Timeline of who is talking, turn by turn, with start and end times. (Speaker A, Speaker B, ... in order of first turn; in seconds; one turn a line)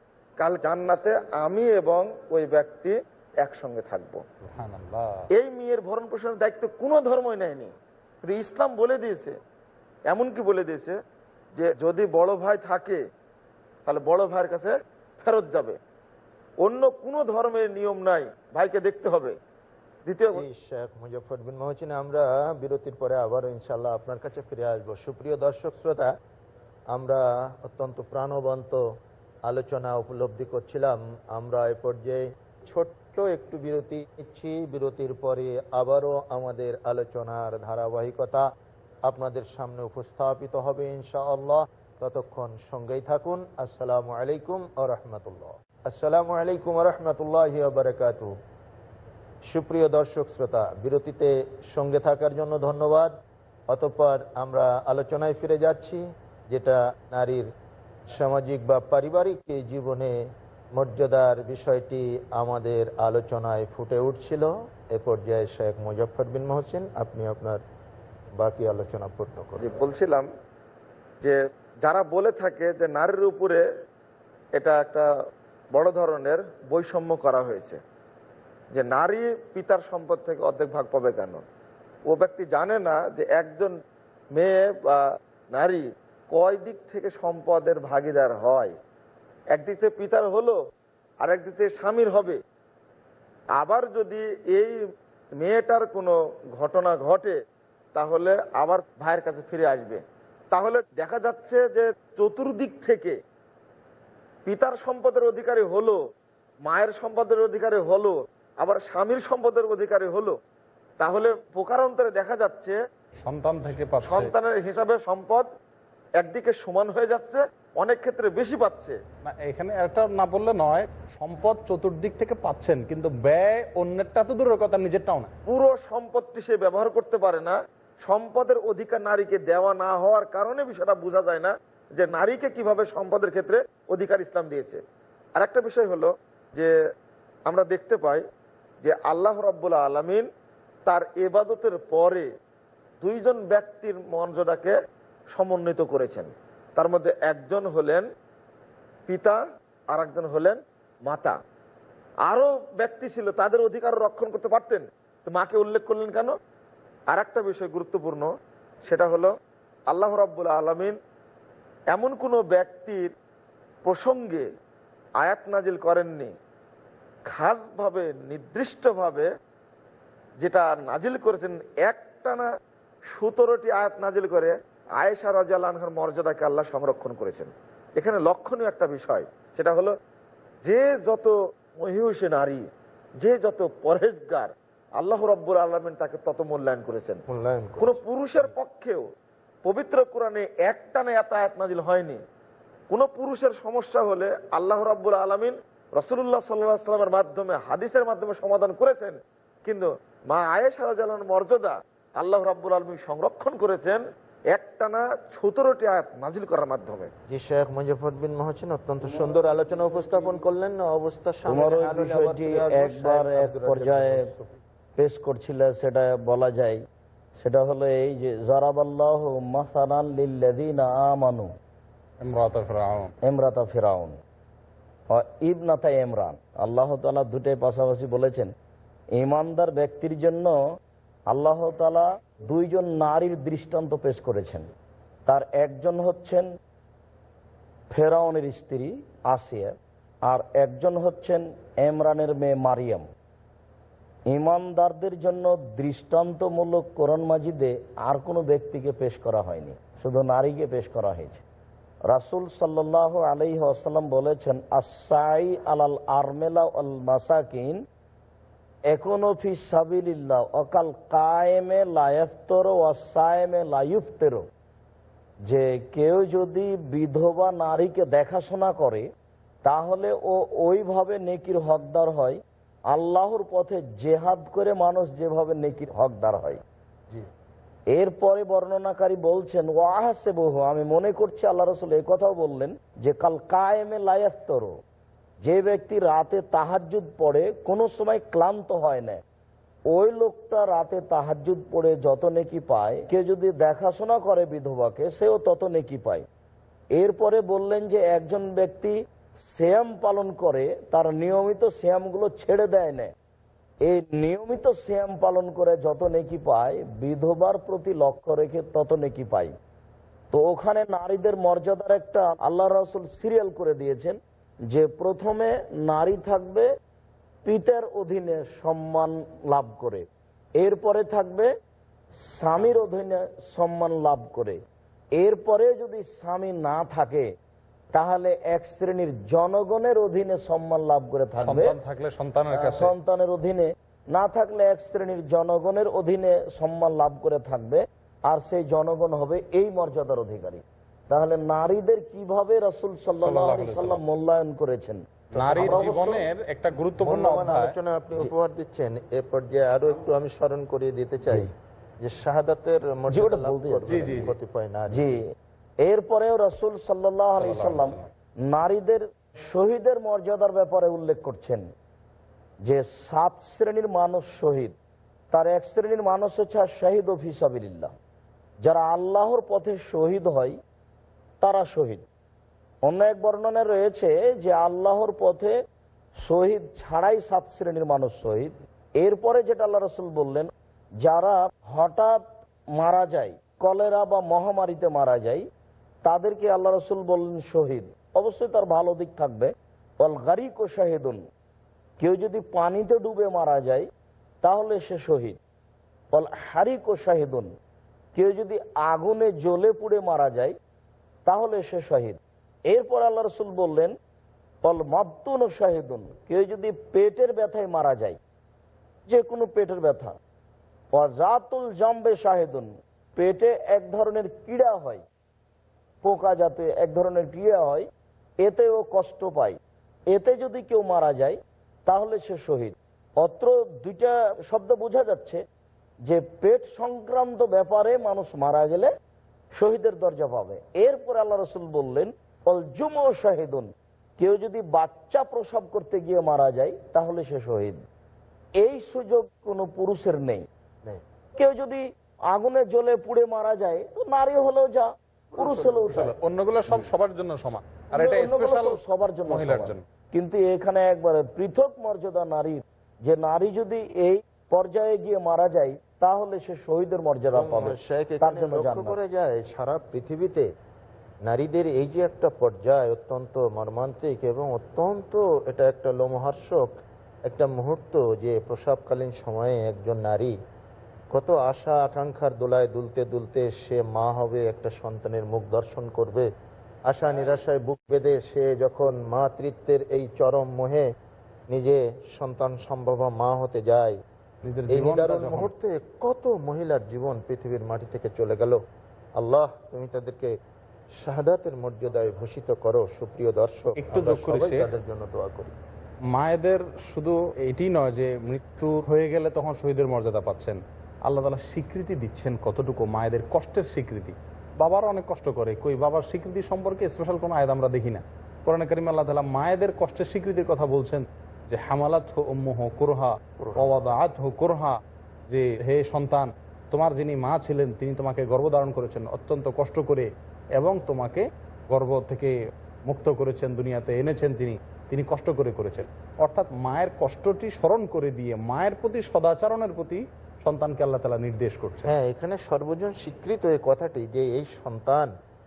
Speaker A: 0.4-4.2
Speaker B: 4.5-5.1
Speaker A: 5.3-9.3
Speaker A: 10.1-11.0
Speaker A: 11.6-13.0
Speaker A: 13.9-15.8
Speaker A: 16.6-19.4
Speaker A: 20.1-20.4
Speaker C: 20.3-26.1
Speaker C: 26.9-28.8
Speaker C: 29.5-38.5
Speaker C: 39.1-48.3
Speaker C: 49.5-53.1
Speaker C: 53.7-57.5
Speaker C: 58.1-60.2
Speaker C: 60.8-67.6
Speaker C: 68.4-69.7
Speaker A: 69.6-70.3
Speaker A: 71.2-73.6
Speaker A: 74.6-75.1
Speaker A: 75.8-77.8
Speaker A: 78.7-81.4
Speaker A: 82.1-83.7
Speaker A: 84.3-88.7
Speaker A: 89.5-90.6
Speaker A: 91.2-92.4
Speaker A: 93.6-94.8
Speaker A: 95.4-97.3
Speaker A: 98.0-100.0
Speaker A: 100.5-103.2
Speaker A: 104.5-106.0
Speaker A: 106.7-110.4
Speaker A: 111.0-112.8
Speaker B: 113.2-114.3
Speaker A: 114.0-115.5
Speaker A: 116.2-119.0
Speaker B: 119.2-125.3
Speaker A: 125.5-134.8
Speaker A: 135.4-136.7
Speaker A: 137.5-138.2
Speaker A: 138.8-140.3
Speaker A: 140.9-142.3
Speaker A: 143.0-144.8
Speaker A: 145.3-148.1
Speaker A: 149.1-149.4
Speaker A: 149.9-151.4
Speaker A: 152.3-156.3
Speaker A: 157.1-158.3
Speaker A: 158.9-159.3
Speaker A: 159.9-161.0
Speaker A: 161.9-163.1
Speaker A: 163.8-164.4
Speaker A: 165.2-166.3
Speaker A: 167.3-169.3
Speaker A: 170.4-172.5
Speaker A: 173.1-179.9
Speaker A: 180.7-182.7
Speaker A: 183.2-187.2
Speaker C: 187.3-188.5
Speaker A: 187.8-189.1
Speaker A: 189.7-192.2
Speaker A: 192.9-207.1
Speaker C: 207.3-214.5
Speaker D: 211.5-214.2
Speaker D: 215.0-216.8
Speaker D: 217.4-221.5
Speaker B: 222.2-223.1
Speaker D: 223.2-224.2
Speaker D: 225.1-228.5
Speaker D: 229.2-230.6
Speaker D: 231.3-234.7
Speaker D: 235.3-236.5
Speaker D: 237.9-239.7
Speaker D: 240.3-243.1
Speaker D: 244.3-251.4
Speaker D: 252.1-257.8
Speaker D: 258.9-264.5
Speaker D: 265.5-269.1
Speaker D: 269.6-272.4
Speaker D: 272.9-276.6
Speaker D: 277.9-284.8
Speaker D: 285.4-289.2
Speaker D: 289.9-296.3
Speaker D: 297.0-298.9
Speaker D: 299.5-303.1
Speaker D: 303.9-309.6
Speaker D: 310.3-314.2
Speaker D: 314.7-316.7
Speaker D: 317.4-320.1
Speaker D: 320.6-321.5
Speaker D: 322.2-324.6
Speaker D: 325.2-327.3
Speaker D: 327.9-331.8
Speaker B: 331.4-332.9
Speaker D: 332.5-346.2
Speaker B: 343.2-344.0
Speaker B: 345.4-347.7
Speaker C: 347.0-351.5
Speaker C: 352.0-355.2
Speaker D: 353.1-354.3
Speaker B: 353.9-354.3
Speaker D: 354.9-355.2
Speaker D: 355.9-358.0
Speaker B: 357.4-358.1
Speaker D: 358.5-361.7
Speaker D: 362.6-364.8
Speaker D: 365.3-367.9
Speaker D: 368.6-370.6
Speaker D: 371.4-372.1
Speaker D: 372.9-375.6
Speaker D: 376.2-380.5
Speaker D: 381.0-385.5
Speaker D: 386.1-391.2
Speaker D: 392.0-393.9
Speaker D: 394.4-395.4
Speaker D: 396.1-397.5
Speaker D: 398.1-400.6
Speaker D: 401.3-403.9
Speaker D: 404.6-408.2
Speaker D: 409.1-410.2
Speaker D: 410.9-415.1
Speaker D: 416.0-417.9
Speaker D: 418.4-419.6
Speaker D: 420.1-425.4
Speaker D: 426.1-428.9
Speaker D: 429.6-437.8
Speaker D: 438.6-440.5
Speaker D: 441.4-446.1
Speaker C: 445.3-446.1
Speaker B: 445.9-449.8
Speaker D: 447.9-459.0
Speaker C: 457.3-460.5
Speaker C: 461.3-466.7
Speaker C: 467.3-470.4
Speaker C: 471.1-476.3
Speaker C: 476.9-480.9
Speaker C: 481.5-483.9
Speaker B: 484.5-485.5
Speaker C: 484.7-488.6
Speaker C: 489.2-490.3
Speaker C: 491.0-495.5
Speaker B: 493.8-494.7
Speaker B: 496.1-514.8
Speaker C: 513.4-513.9
Speaker B: 515.3-522.4
Speaker B: 522.9-531.9
Speaker C: 531.9-535.1